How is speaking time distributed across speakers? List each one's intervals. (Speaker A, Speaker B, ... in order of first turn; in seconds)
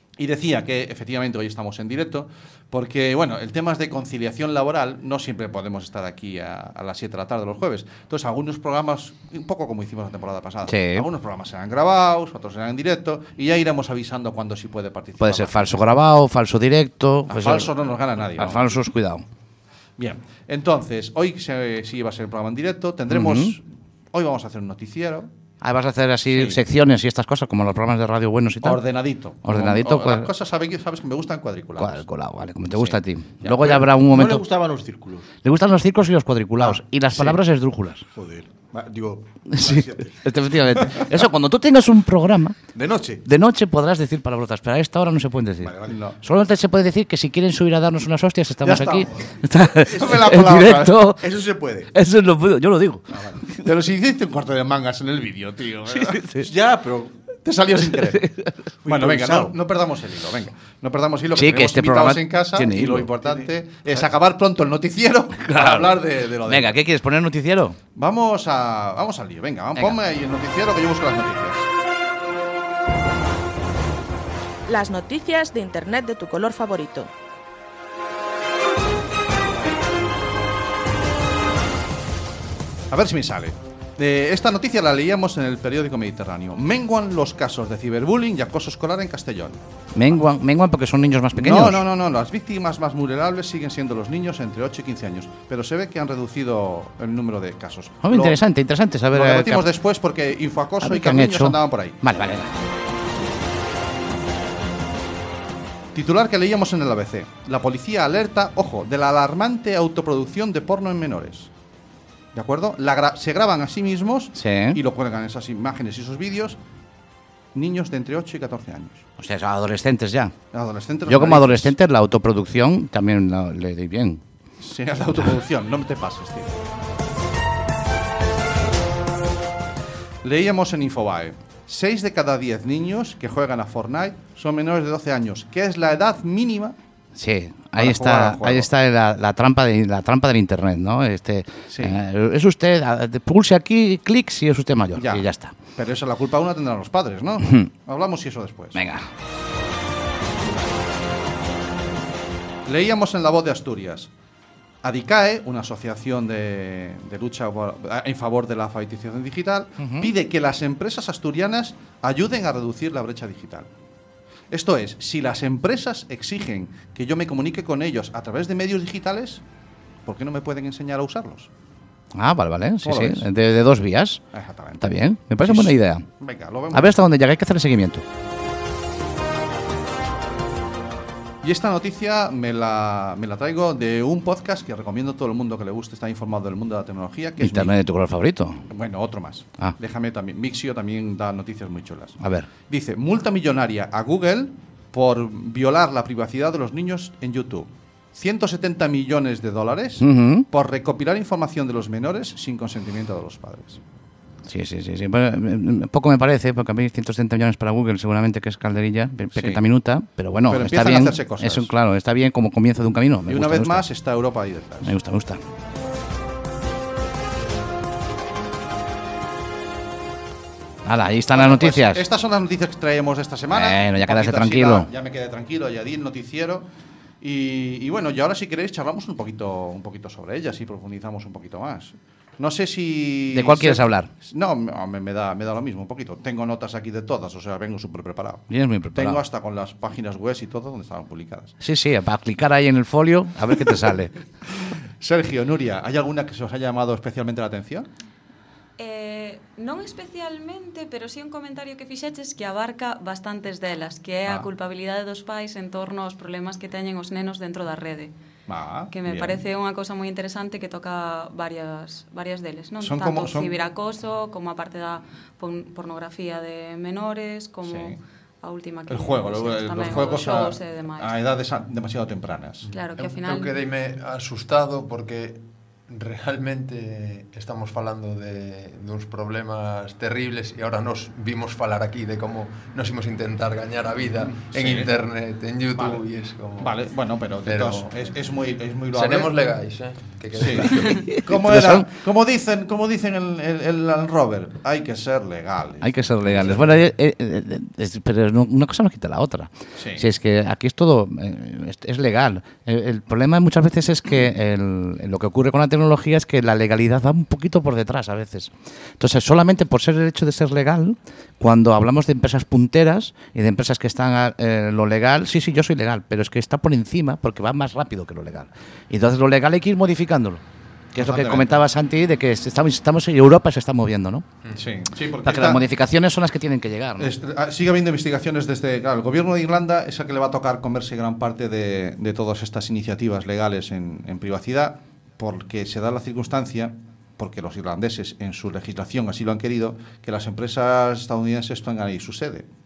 Speaker A: 0.2-15.8, 17.3-18.7, 20.0-25.3, 26.3-26.6, 28.6-32.0, 32.7-33.8, 36.6-37.3, 45.8-46.2, 48.6-51.1, 53.2-56.5, 57.4-58.2, 58.9-66.7, 68.0-71.7, 82.9-89.6, 91.4-98.4, 99.1-102.0, 105.9-111.5, 112.3-116.6, 117.5-119.0, 120.5-121.7, 124.6-126.6, 130.2-136.8, 137.8-138.7, 141.7-142.0, 144.9-148.8, 152.7-154.1, 154.8-163.7, 164.5-169.4, 170.0-171.5, 172.8-173.2, 174.3-177.0, 181.4-187.7, 188.7-203.8, 209.3-209.6, 210.5-211.7, 213.3-214.9, 221.3-226.7, 227.2-241.5, 245.0-247.9, 258.5-259.4, 262.8-263.5, 267.6-267.9, 268.9-272.7, 284.5-284.9, 285.7-286.1, 286.6-289.3, 290.4-296.8, 299.8-300.0, 320.9-321.6, 324.5-325.6, 327.0-342.5
Speaker B: 10.6-11.1, 15.2-17.7, 18.4-19.2, 23.1-23.6, 25.6-28.8, 29.4-30.3, 31.8-34.4, 35.4-38.0, 39.5-42.6, 43.2-51.2, 51.9-53.0, 55.9-56.5, 57.9-58.6, 61.3-63.1, 65.5-67.8, 89.9-91.8, 98.0-99.7, 100.8-102.5, 114.3-114.8, 119.2-120.3, 121.0-124.2, 137.2-145.5, 148.7-149.1, 159.8-160.1, 172.1-174.2, 174.8-176.0, 176.7-178.0, 187.4-188.6, 192.2-192.5, 200.0-200.5, 204.5-213.8, 214.8-215.4, 220.8-222.0, 223.5-224.9, 233.3-234.1, 238.5-239.2, 241.6-244.1, 290.7-291.9, 295.8-320.4, 320.9-324.2, 325.2-327.1
Speaker C: 33.6-35.3, 38.1-40.3, 42.7-43.2, 45.6-46.0, 51.2-51.9, 56.4-57.2, 58.8-59.5
Speaker D: 74.7-77.1
Speaker E: 248.8-258.1, 258.9-271.1, 272.7-273.6
Speaker F: 272.7-286.7, 287.4-287.9, 288.9-291.1